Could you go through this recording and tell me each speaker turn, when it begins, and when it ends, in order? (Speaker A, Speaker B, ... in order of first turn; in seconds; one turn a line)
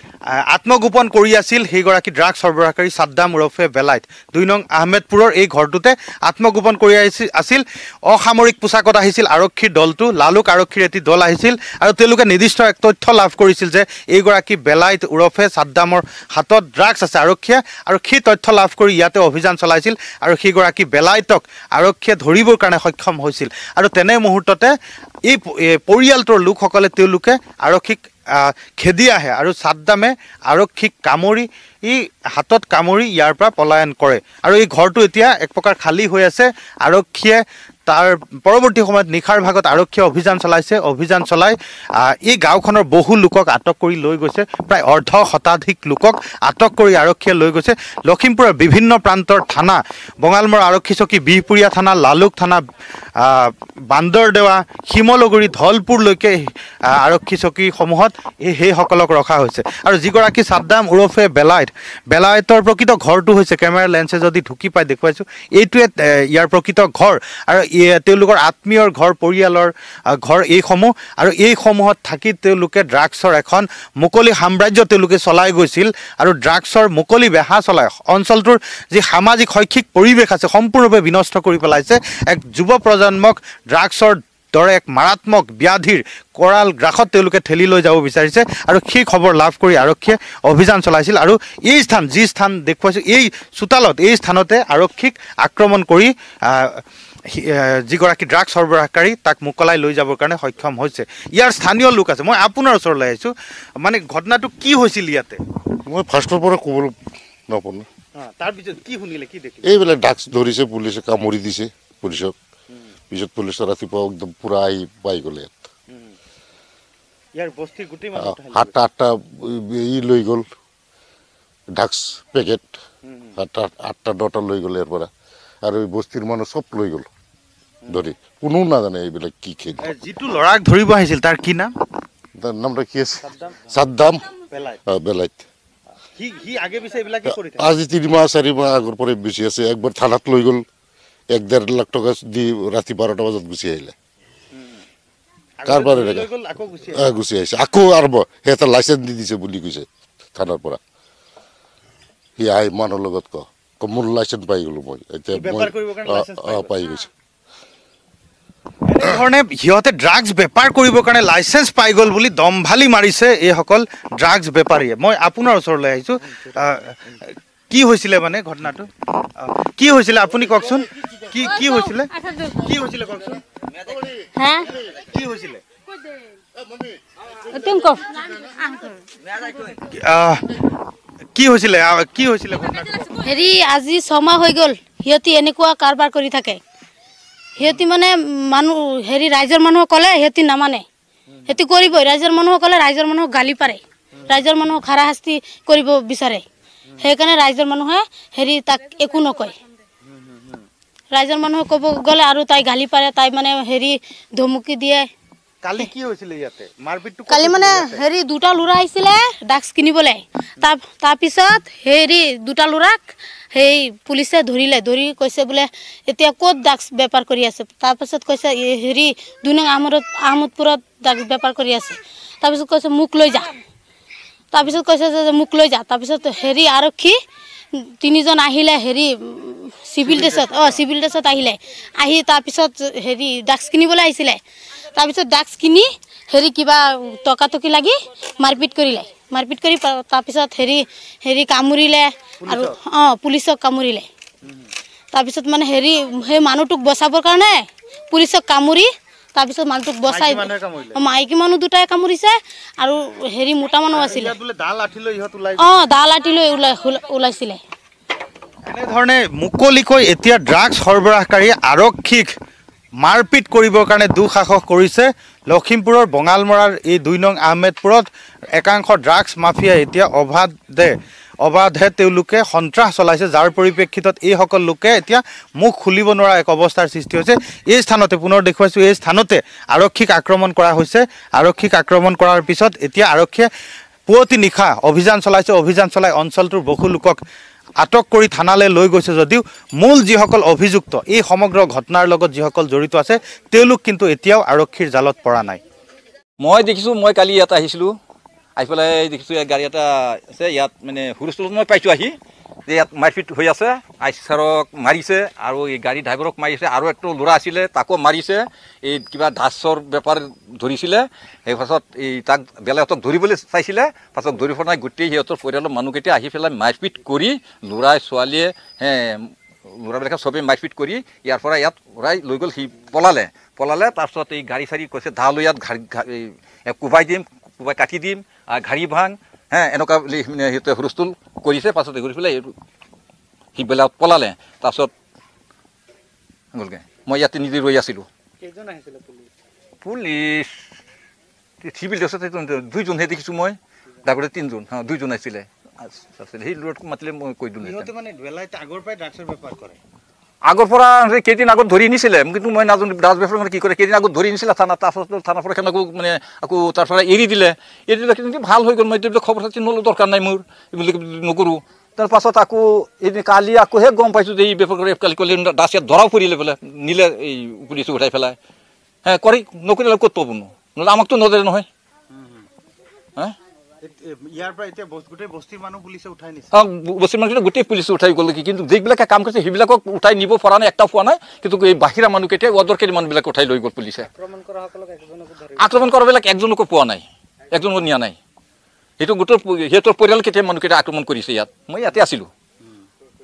Speaker A: 0.3-52.6
Speaker A: 53.2-105.4
Speaker B: 105.8-106.9
Speaker B: 107.5-107.8
Speaker A: 108.2-109.7
Speaker B: 109.6-112.3
Speaker B: 113.1-115.6
Speaker A: 117.3-118.7
Speaker B: 118.2-120.5
Speaker B: 121.7-122.8
Speaker A: 123.0-123.3
Speaker B: 123.4-125.1
Speaker B: 125.6-127.0
Speaker B: 127.9-129.8
Speaker A: 129.8-131.7
Speaker B: 132.4-134.3
Speaker A: 133.2-133.6
Speaker A: 134.5-134.8
Speaker B: 134.9-135.4
Speaker A: 136.1-137.7
Speaker B: 137.2-140.6
Speaker B: 141.3-143.9
Speaker A: 144.5-144.8
Speaker A: 145.6-147.2
Speaker B: 145.7-146.3
Speaker B: 146.9-150.8
Speaker B: 152.4-157.1
Speaker A: 155.3-156.7
Speaker A: 158.9-167.0
Speaker A: 167.7-173.4
Speaker C: 171.5-172.4
Speaker C: 174.3-174.7
Speaker A: 174.9-175.6
Speaker C: 177.4-179.0
Speaker A: 179.5-180.5
Speaker A: 181.3-183.2
Speaker C: 183.2-186.6
Speaker C: 187.6-190.8
Speaker A: 187.6-187.8
Speaker A: 191.3-191.6
Speaker C: 191.5-196.4
Speaker C: 197.0-199.6
Speaker A: 200.0-200.7
Speaker C: 201.1-205.1
Speaker A: 205.6-208.0
Speaker C: 207.3-223.6
Speaker C: 224.5-227.2
Speaker C: 227.7-234.4
Speaker A: 230.0-230.8
Speaker C: 234.9-244.1
Speaker A: 242.4-242.8
Speaker A: 244.4-244.7
Speaker C: 245.1-254.3
Speaker A: 250.1-251.0
Speaker A: 253.9-255.8
Speaker C: 255.6-257.6
Speaker A: 258.7-262.3
Speaker A: 263.0-283.5
Speaker A: 284.1-287.2
Speaker A: 287.8-295.6
Speaker D: 296.4-297.9
Speaker D: 298.6-302.1
Speaker D: 302.7-332.5
Speaker D: 333.6-334.9
Speaker D: 336.5-338.1
Speaker A: 338.4-339.3
Speaker D: 339.8-340.6
Speaker D: 341.6-347.9
Speaker A: 347.6-349.8
Speaker D: 350.4-368.4
Speaker D: 369.0-371.7
Speaker A: 372.1-372.4
Speaker A: 373.8-376.5
Speaker D: 376.5-384.1
Speaker A: 384.1-385.7
Speaker D: 385.6-388.1
Speaker D: 389.0-392.3